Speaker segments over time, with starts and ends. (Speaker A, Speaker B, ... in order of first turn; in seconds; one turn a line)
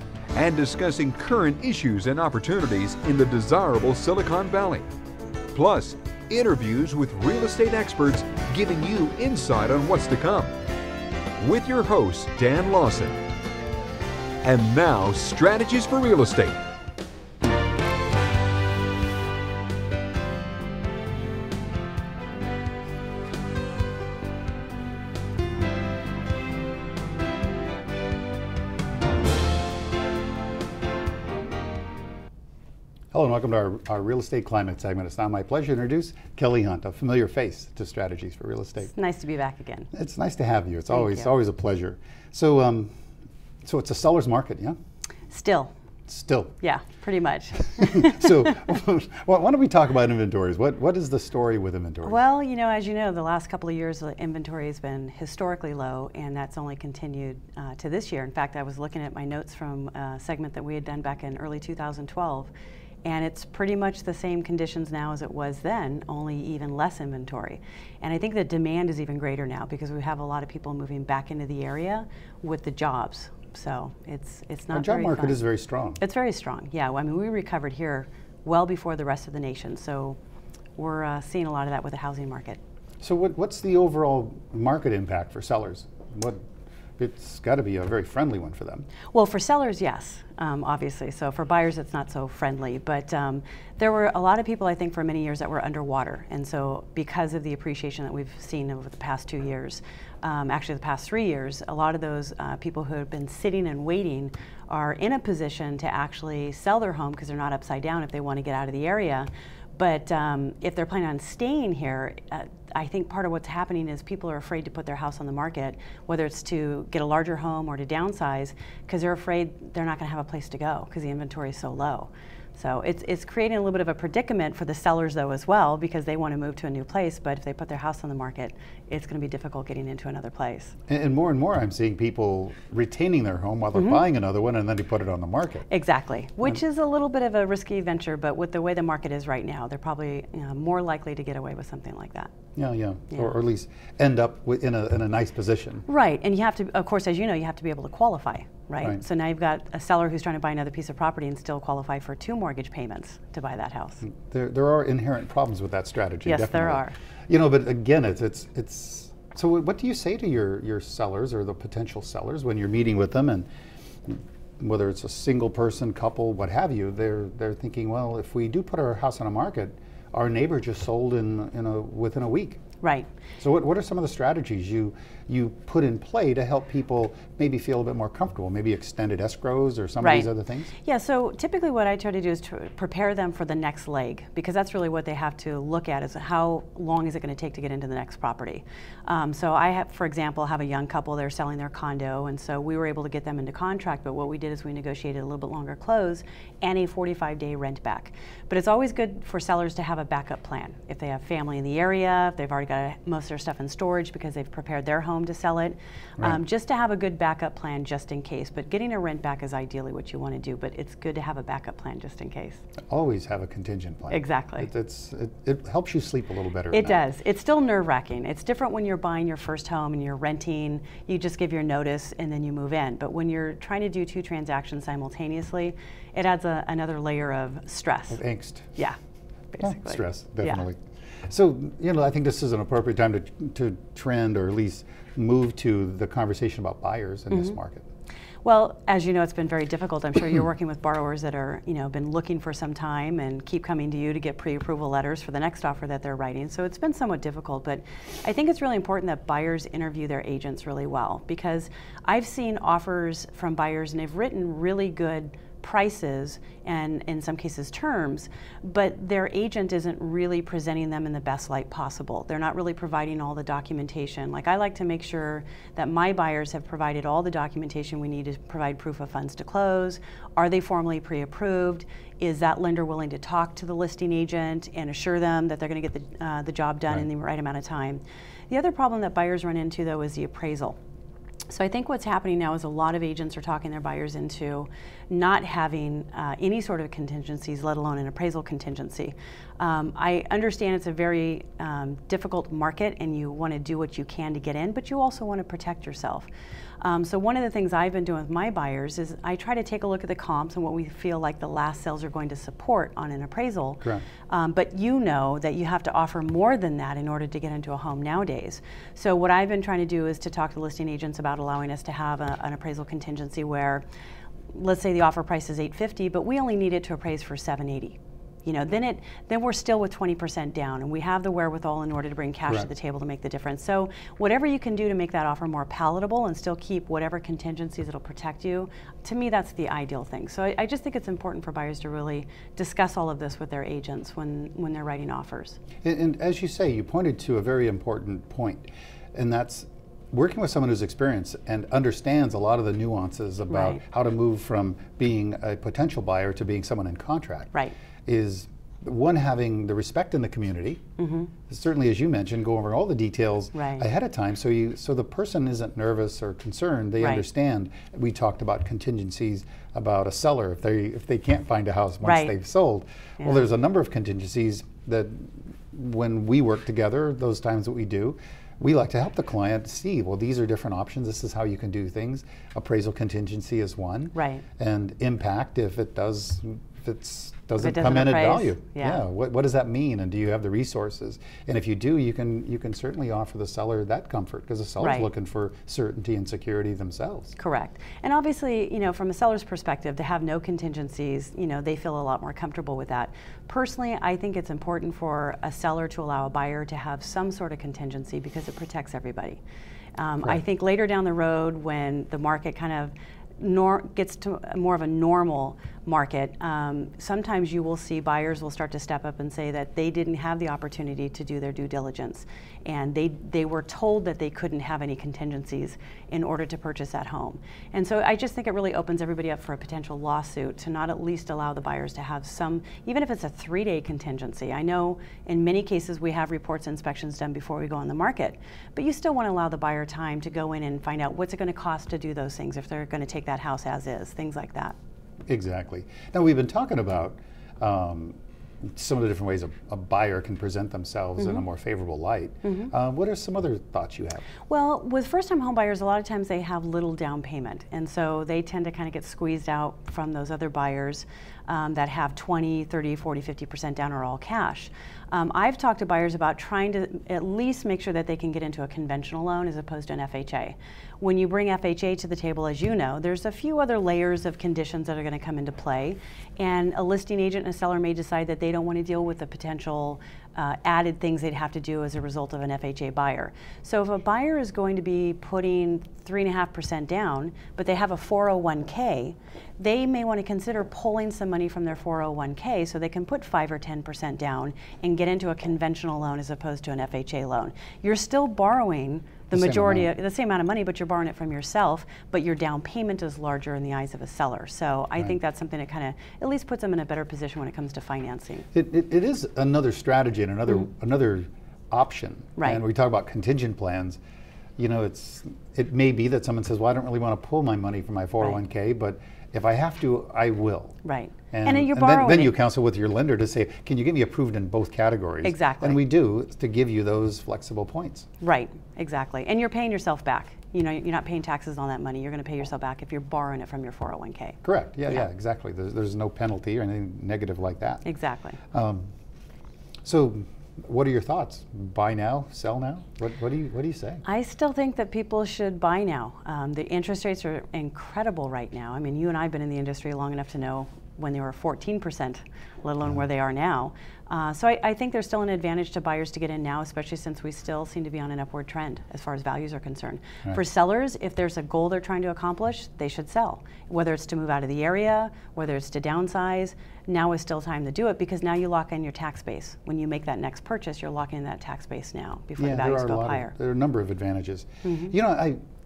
Speaker A: 0.3-4.8
Speaker A: 5.5-10.5
Speaker A: 11.4-13.2
Speaker A: 14.4-16.6
Speaker B: 33.1-38.9
Speaker C: 38.8-39.9
Speaker B: 39.9-42.9
Speaker C: 40.9-41.3
Speaker B: 43.6-44.7
Speaker C: 45.3-45.7
Speaker B: 46.1-46.5
Speaker C: 46.6-48.5
Speaker B: 47.8-52.2
Speaker C: 52.0-62.5
Speaker C: 63.0-75.4
Speaker B: 74.7-76.0
Speaker C: 76.0-80.2
Speaker C: 80.8-82.6
Speaker B: 83.0-86.4
Speaker B: 87.0-88.9
Speaker C: 89.1-130.8
Speaker B: 130.9-135.7
Speaker C: 133.7-134.0
Speaker C: 135.7-142.3
Speaker B: 142.6-145.8
Speaker C: 145.8-154.0
Speaker B: 154.0-163.5
Speaker C: 156.2-156.9
Speaker B: 164.0-172.6
Speaker C: 172.8-173.1
Speaker B: 173.4-180.7
Speaker C: 180.0-212.6
Speaker B: 212.9-217.0
Speaker C: 214.1-214.7
Speaker C: 216.7-228.2
Speaker B: 228.1-228.8
Speaker C: 229.5-230.6
Speaker B: 229.6-237.8
Speaker C: 237.3-237.6
Speaker C: 238.4-280.8
Speaker C: 281.5-296.3
Speaker C: 296.8-313.8
Speaker C: 314.5-335.6
Speaker B: 335.8-347.5
Speaker C: 343.5-343.8
Speaker B: 348.1-350.8
Speaker C: 351.0-351.3
Speaker B: 351.5-387.3
Speaker C: 353.5-353.8
Speaker C: 357.0-357.2
Speaker C: 362.0-362.4
Speaker C: 363.2-363.4
Speaker C: 374.1-374.4
Speaker C: 377.6-379.0
Speaker C: 384.8-385.1
Speaker C: 387.4-399.4
Speaker C: 400.0-434.8
Speaker B: 435.3-444.2
Speaker C: 441.2-441.4
Speaker C: 442.4-442.7
Speaker C: 444.5-498.5
Speaker B: 489.3-489.9
Speaker B: 498.5-504.0
Speaker C: 502.4-502.6
Speaker B: 504.6-510.8
Speaker C: 510.8-512.4
Speaker B: 511.3-518.1
Speaker C: 515.2-515.8
Speaker C: 518.2-525.0
Speaker B: 524.4-527.8
Speaker C: 527.8-528.4
Speaker B: 528.5-528.9
Speaker B: 529.8-534.0
Speaker C: 534.0-563.3
Speaker B: 562.4-565.4
Speaker C: 564.6-565.0